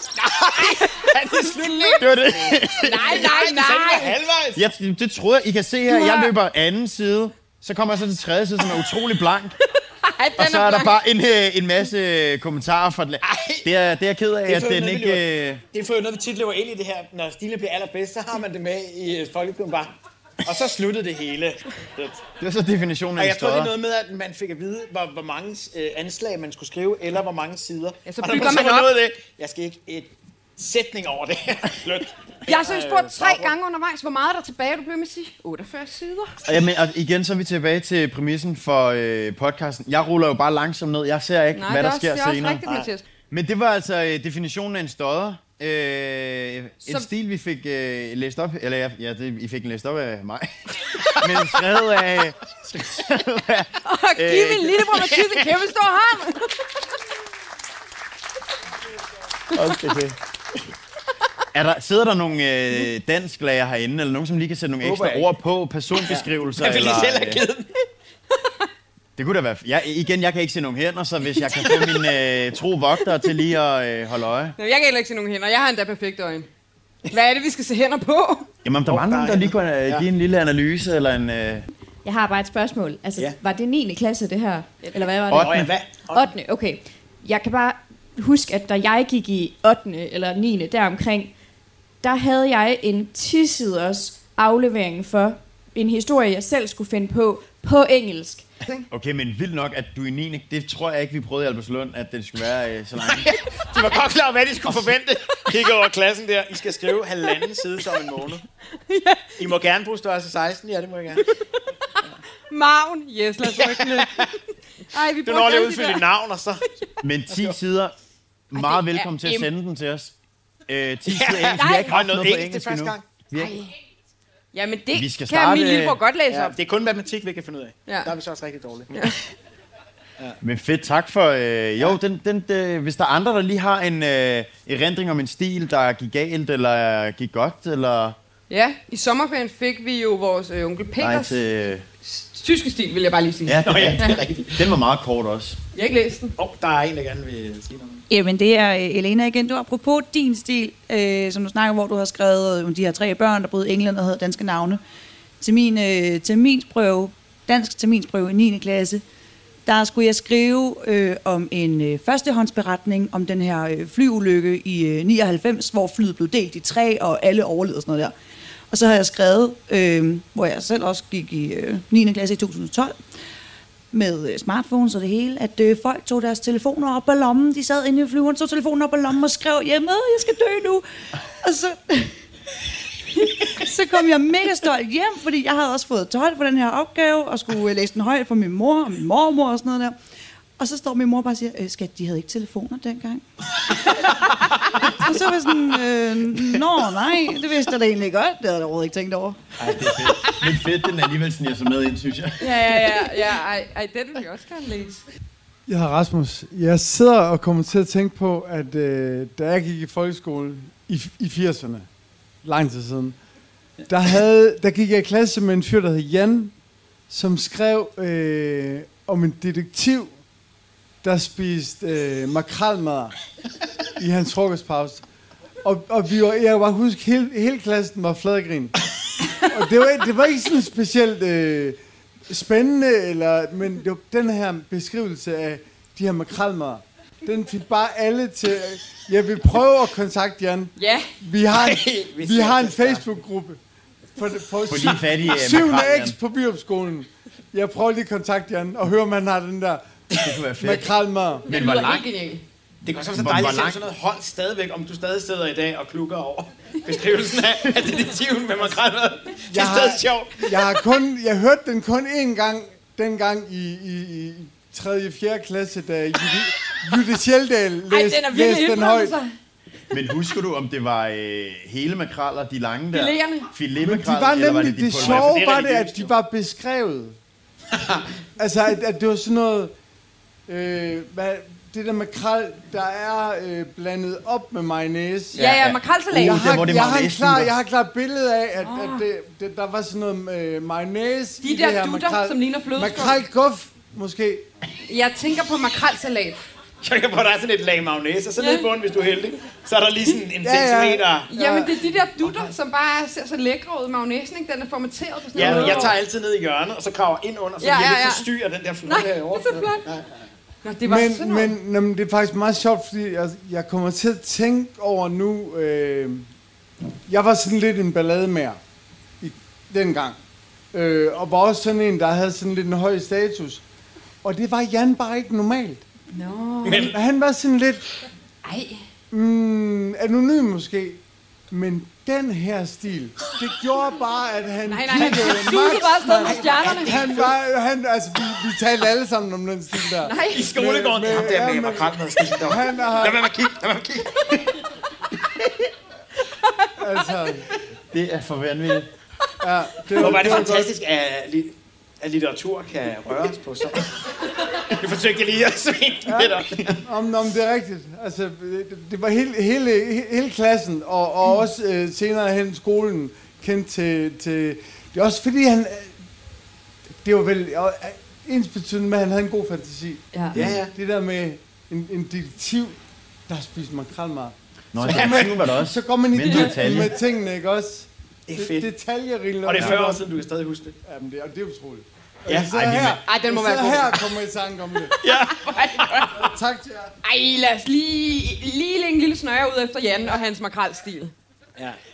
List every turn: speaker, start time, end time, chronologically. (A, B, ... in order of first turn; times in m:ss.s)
0:00.2-0:04.6 A
0:00.5-0:02.0 B
0:02.0-0:03.3 C
0:02.7-0:04.1 B
0:04.5-0:09.6 C
0:05.9-0:06.3 B
0:09.8-0:11.0 B
0:10.4-0:15.6 C
0:13.2-0:13.7 A
0:14.4-0:22.2 A
0:22.4-0:23.7 C
0:23.2-0:33.5 A
0:28.0-0:28.9 B
0:32.4-0:36.4 B
0:36.4-0:42.6 C
0:41.5-0:43.0 B
0:43.3-0:55.1 C
0:53.8-0:56.7 B
0:59.5-1:00.2 C
1:01.5-1:07.4 C
1:04.8-1:05.3 A
1:06.0-1:07.7 A
1:09.2-1:14.6 C
1:11.4-1:12.0 B
1:14.6-1:16.5 B
1:17.1-1:18.4 B
1:18.6-1:21.7 C
1:18.9-1:20.0 A
1:22.0-1:31.3 D
1:25.3-1:25.7 C
1:25.3-1:26.3 A
1:32.0-1:38.4 D
1:38.9-1:43.3 C
1:43.0-1:48.4 A
1:48.9-1:49.3 B
1:49.4-1:51.2 A
1:52.0-1:54.4 B
1:53.6-1:54.3 A
1:54.9-1:56.0 B
1:55.2-1:56.6 A
1:57.0-1:57.9 C
1:57.3-1:57.6 A
1:58.5-2:00.1 C
1:58.5-1:59.5 B
2:00.7-2:03.6 C
2:01.0-2:03.0 A
2:01.6-2:02.0 B
2:03.3-2:03.7 B
2:04.5-2:06.5 B
2:04.9-2:06.0 C
2:06.3-2:09.1 A
2:10.4-2:18.2 C
2:18.5-2:21.4 B
2:21.0-2:21.8 C
2:22.0-2:24.2 B
2:23.4-2:25.6 C
2:23.6-2:24.7 A
2:25.7-2:26.3 B
2:26.4-2:28.0 A
2:28.1-2:34.8 E
2:35.4-2:39.0 E
2:39.6-2:48.1 E
2:48.7-2:53.0 E
2:53.9-3:00.8 E
3:01.4-3:02.2 E
3:03.2-3:10.0 E
3:10.6-3:13.2 E
3:14.1-3:19.4 E
3:19.6-3:22.8 C
3:22.4-3:25.0 B
3:25.7-3:31.9 F
3:32.4-3:33.2 F
3:33.9-3:36.5 F
3:37.1-3:40.2 F
3:41.0-3:43.2 F
3:44.0-3:45.0 F
3:45.6-3:48.8 F
3:49.5-3:51.8 F
3:52.3-4:03.6 F
4:00.8-4:01.1 B
4:01.5-4:03.1 A
4:04.2-4:09.9 F
4:04.7-4:06.2 C
4:04.9-4:05.3 A
4:10.2-4:12.0 C
4:10.6-4:11.5 F
4:11.5-4:12.4 B
4:12.8-4:20.8 A
4:13.1-4:13.8 C
4:19.5-4:29.2 F
4:27.9-4:29.3 B
4:29.9-4:35.4 C
4:32.9-4:33.5 B
4:33.8-4:37.2 F
4:34.9-4:36.1 A
4:38.4-4:39.7 F
4:40.5-4:45.4 F
4:45.3-4:47.5 C
4:45.4-4:46.4 B
4:46.1-4:54.4 F
4:48.6-4:49.0 B
4:51.4-4:53.2 B
4:54.9-4:56.4 B
4:56.8-5:01.3 A
4:58.4-4:58.6 B
5:00.4-5:01.8 F
5:01.3-5:06.0 B
5:05.4-5:10.0 A
5:05.4-5:05.9 F
5:07.6-5:08.2 B
5:08.8-5:09.8 B
5:10.6-5:11.6 B
5:10.8-5:16.3 F
5:17.1-5:18.6 F
5:19.2-5:20.2 F
5:20.7-5:23.6 F
5:24.2-5:25.8 F
5:26.1-5:26.9 B
5:26.6-5:27.0 A
5:26.8-5:27.8 F
5:28.4-5:28.8 B
5:29.1-5:43.2 F
5:34.6-5:37.0 B
5:35.0-5:35.6 A
5:36.2-5:37.4 A
5:40.0-5:40.6 B
5:40.3-5:44.6 A
5:46.2-5:46.7 B
5:46.8-5:47.5 F
5:47.9-5:48.9 C
5:49.4-5:50.7 F
5:50.0-5:56.8 A
5:56.0-6:06.0 F
6:07.0-6:10.1 F
6:10.3-6:10.6 C
6:10.3-6:10.7 A
6:10.7-6:12.8 F
6:13.3-6:20.0 F
6:14.7-6:16.9 C
6:14.8-6:15.5 A
6:16.2-6:16.6 B
6:18.3-6:18.7 A
6:19.4-6:20.7 A
6:20.8-6:25.0 F
6:22.5-6:23.0 C
6:23.0-6:24.0 B
6:25.0-6:26.1 A
6:25.1-6:26.3 B
6:26.1-6:26.9 F
6:27.0-6:31.1 B